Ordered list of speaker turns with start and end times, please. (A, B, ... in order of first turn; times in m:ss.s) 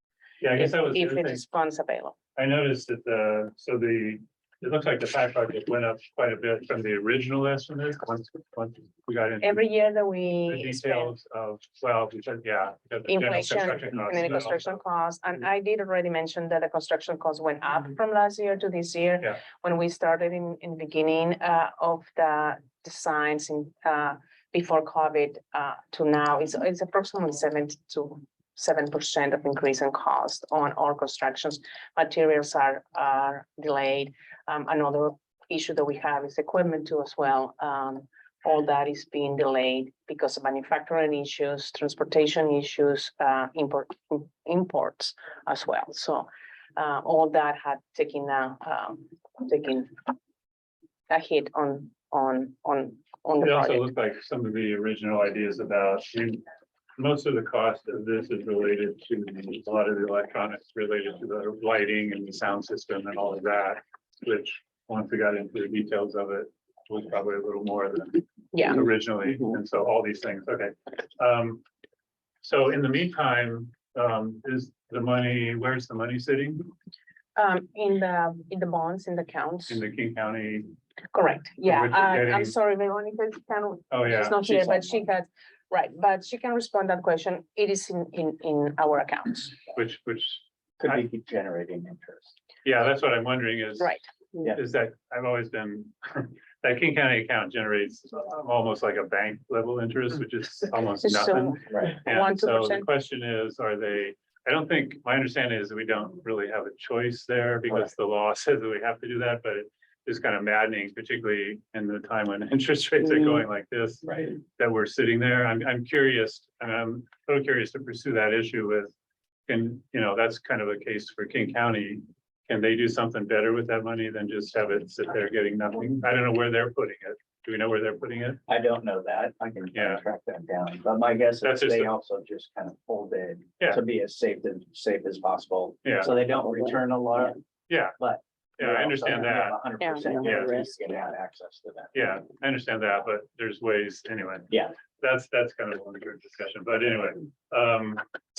0:00.4-0:01.4 A
0:00.5-0:02.2 B
0:02.4-0:09.6 A
0:09.4-0:11.1 B
0:10.5-0:14.8 A
0:13.1-0:50.0 B
0:51.1-0:53.9 B
0:53.4-0:56.4 A
0:57.0-1:11.6 A
1:12.4-1:16.7 A
1:17.4-1:19.8 B
1:19.7-1:20.7 A
1:21.1-1:29.6 B
1:21.6-1:22.5 A
1:23.9-1:24.4 A
1:24.5-1:25.0 C
1:29.7-1:31.0 A
1:30.8-1:32.3 C
1:32.6-1:58.9 A
1:33.8-1:34.0 B
1:41.0-1:42.9 B
1:41.7-1:42.0 C
1:54.0-1:54.3 C
1:59.5-2:08.4 A
2:08.5-2:17.4 C
2:09.7-2:10.0 A
2:11.4-2:11.9 A
2:15.8-2:16.1 A
2:17.7-2:18.0 A
2:18.0-2:22.0 C
2:18.6-2:19.6 A
2:20.2-2:20.6 A
2:21.9-2:28.0 A
2:24.5-2:24.7 C